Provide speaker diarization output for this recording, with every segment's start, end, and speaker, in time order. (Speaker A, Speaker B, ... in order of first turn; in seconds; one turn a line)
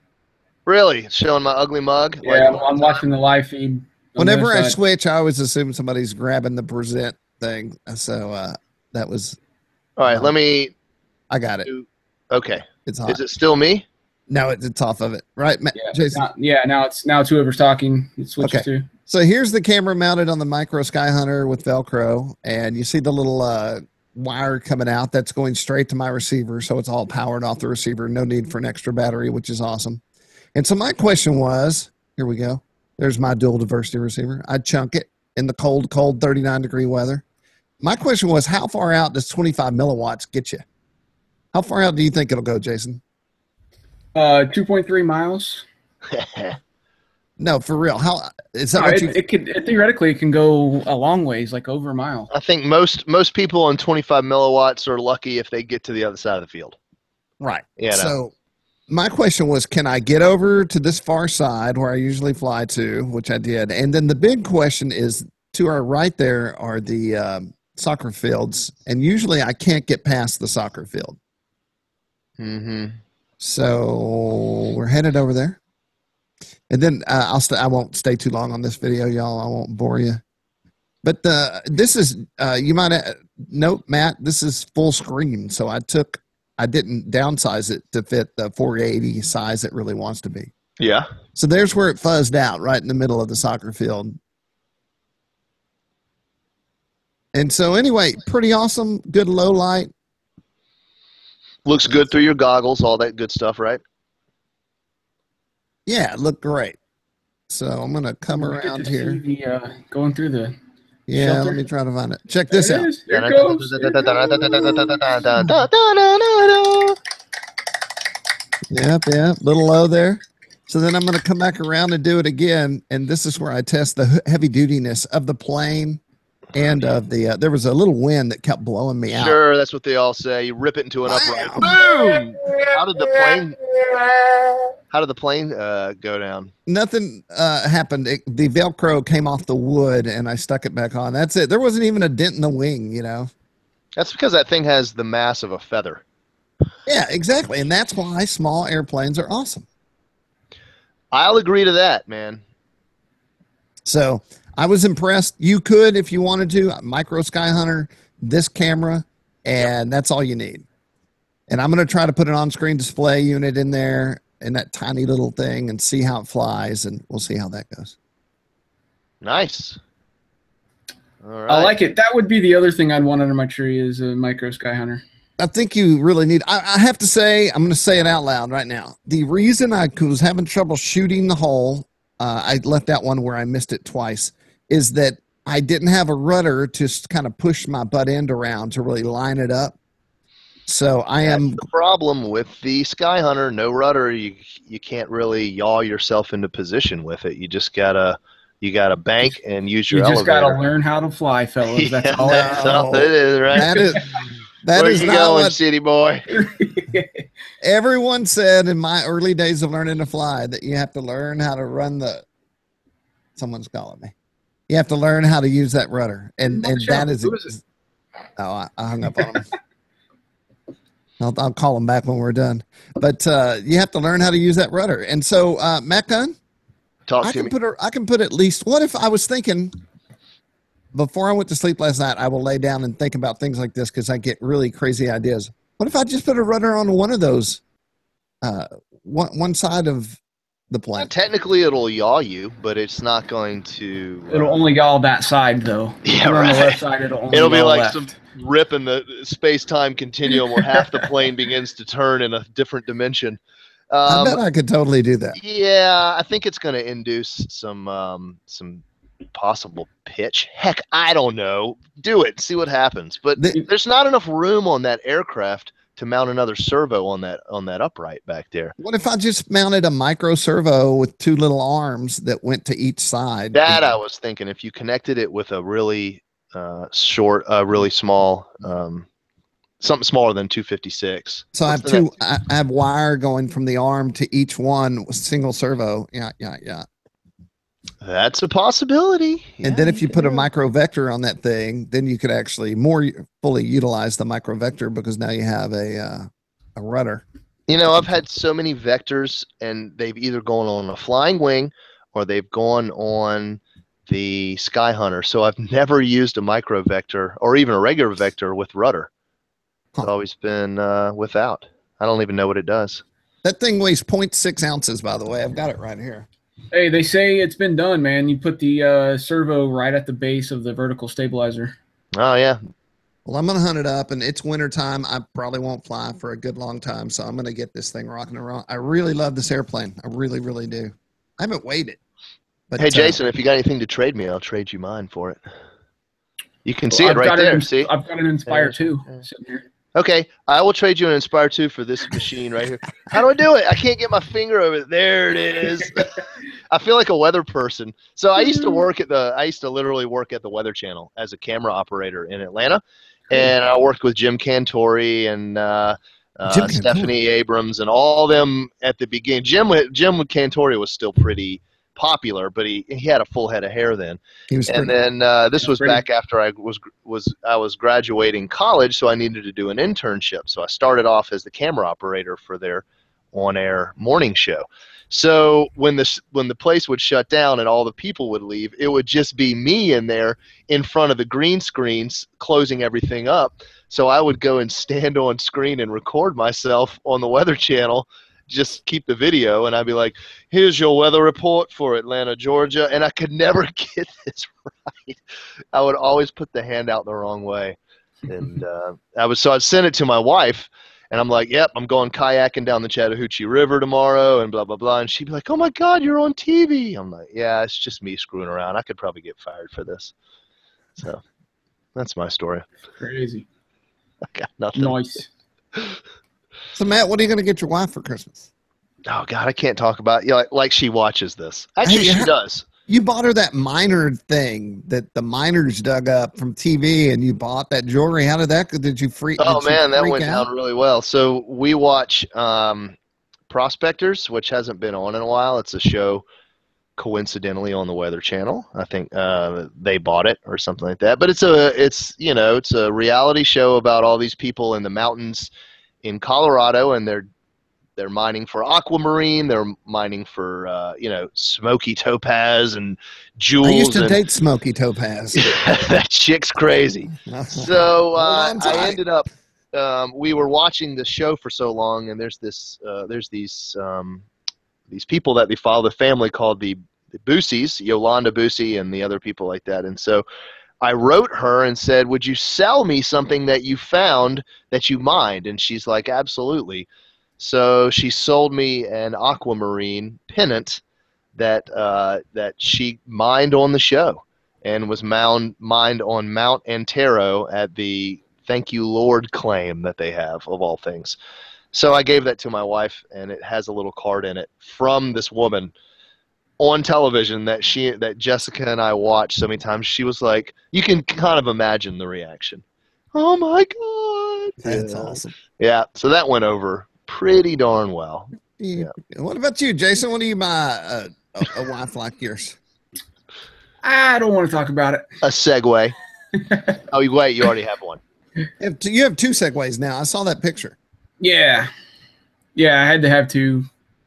Speaker A: 0.7-3.1
Speaker B: 2.2-4.8
Speaker C: 4.2-9.4
Speaker A: 10.0-10.7
Speaker C: 10.1-10.3
Speaker C: 11.3-11.7
Speaker A: 11.7-13.9
Speaker C: 12.9-13.2
Speaker C: 14.3-16.3
Speaker B: 15.8-18.9
Speaker C: 18.4-30.0
Speaker C: 30.6-37.2
Speaker C: 37.8-40.6
Speaker C: 41.5-43.0
Speaker B: 44.1-45.6
Speaker A: 46.1-46.6
Speaker C: 47.4-49.1
Speaker B: 48.8-52.3
Speaker A: 52.3-56.8
Speaker C: 57.4-58.3
Speaker A: 57.8-58.1
Speaker C: 58.9-71.2
Speaker A: 72.4-73.0
Speaker C: 73.4-75.6
Speaker C: 76.7-80.2
Speaker C: 81.0-90.5
Speaker A: 90.8-91.1
Speaker C: 91.3-94.2
Speaker C: 97.3-99.9
Speaker A: 101.7-103.8
Speaker C: 105.9-106.8
Speaker C: 107.5-109.2
Speaker B: 108.3-110.5
Speaker C: 111.1-112.9
Speaker B: 111.1-111.6
Speaker B: 112.5-115.2
Speaker A: 113.1-117.0
Speaker C: 118.7-126.0
Speaker C: 126.5-129.4
Speaker A: 129.1-133.6
Speaker C: 131.1-132.2
Speaker A: 134.9-136.5
Speaker C: 136.7-143.3
Speaker A: 144.0-146.0
Speaker C: 146.9-149.7
Speaker A: 151.1-152.4
Speaker C: 153.8-160.7
Speaker C: 161.5-167.9
Speaker A: 169.2-169.8
Speaker A: 171.2-171.8
Speaker B: 171.5-175.0
Speaker C: 175.4-189.8
Speaker C: 190.7-191.6
Speaker A: 191.2-200.6
Speaker B: 199.9-202.8
Speaker A: 201.7-203.9
Speaker C: 202.2-204.0
Speaker B: 203.6-204.2
Speaker C: 204.6-205.6
Speaker A: 204.7-206.3
Speaker B: 206.3-207.2
Speaker C: 207.6-212.2
Speaker C: 213.4-214.1
Speaker C: 214.7-217.6
Speaker B: 216.5-217.5
Speaker C: 218.4-219.5
Speaker C: 221.2-226.3
Speaker A: 227.1-227.5
Speaker C: 227.2-229.7
Speaker C: 230.9-237.6
Speaker C: 238.4-240.2
Speaker C: 240.7-241.1
Speaker A: 240.9-244.6
Speaker B: 244.3-248.2
Speaker A: 246.1-253.4
Speaker A: 253.9-254.4
Speaker C: 254.1-255.4
Speaker A: 255.3-268.8
Speaker C: 268.8-273.9
Speaker A: 273.5-279.1
Speaker A: 279.8-282.1
Speaker C: 281.5-286.9
Speaker A: 288.0-289.8
Speaker C: 289.6-297.2
Speaker B: 289.9-290.4
Speaker A: 297.7-309.1
Speaker A: 310.0-313.0
Speaker C: 313.4-316.3
Speaker B: 316.7-321.8
Speaker A: 322.1-322.6
Speaker C: 323.3-332.0
Speaker C: 332.7-333.2
Speaker A: 332.8-335.4
Speaker A: 336.6-337.9
Speaker B: 336.9-339.7
Speaker A: 338.5-338.7
Speaker A: 339.9-346.2
Speaker A: 346.7-395.2
Speaker C: 356.5-357.1
Speaker C: 364.5-364.9
Speaker B: 365.6-366.0
Speaker A: 395.7-397.8
Speaker A: 398.3-410.1
Speaker A: 412.0-412.6
Speaker B: 413.0-413.5
Speaker A: 414.3-415.0
Speaker B: 414.8-415.3
Speaker C: 416.8-418.5
Speaker A: 419.1-422.7
Speaker C: 421.8-422.3
Speaker C: 422.9-430.5
Speaker A: 429.4-433.0
Speaker A: 433.5-436.2
Speaker A: 437.0-445.5
Speaker A: 446.0-447.3
Speaker A: 448.0-454.2
Speaker C: 453.6-455.6
Speaker A: 455.4-464.2
Speaker C: 457.2-459.0
Speaker A: 464.9-470.2
Speaker A: 470.8-476.9
Speaker A: 477.4-480.8
Speaker A: 481.4-491.2
Speaker A: 491.7-495.7
Speaker A: 496.6-502.6
Speaker A: 503.1-508.9
Speaker C: 504.6-505.3
Speaker C: 508.6-512.6
Speaker B: 513.8-515.1
Speaker A: 515.2-516.0
Speaker B: 516.4-516.8
Speaker A: 516.9-518.0
Speaker C: 518.6-520.8
Speaker B: 521.2-521.7
Speaker B: 522.5-523.7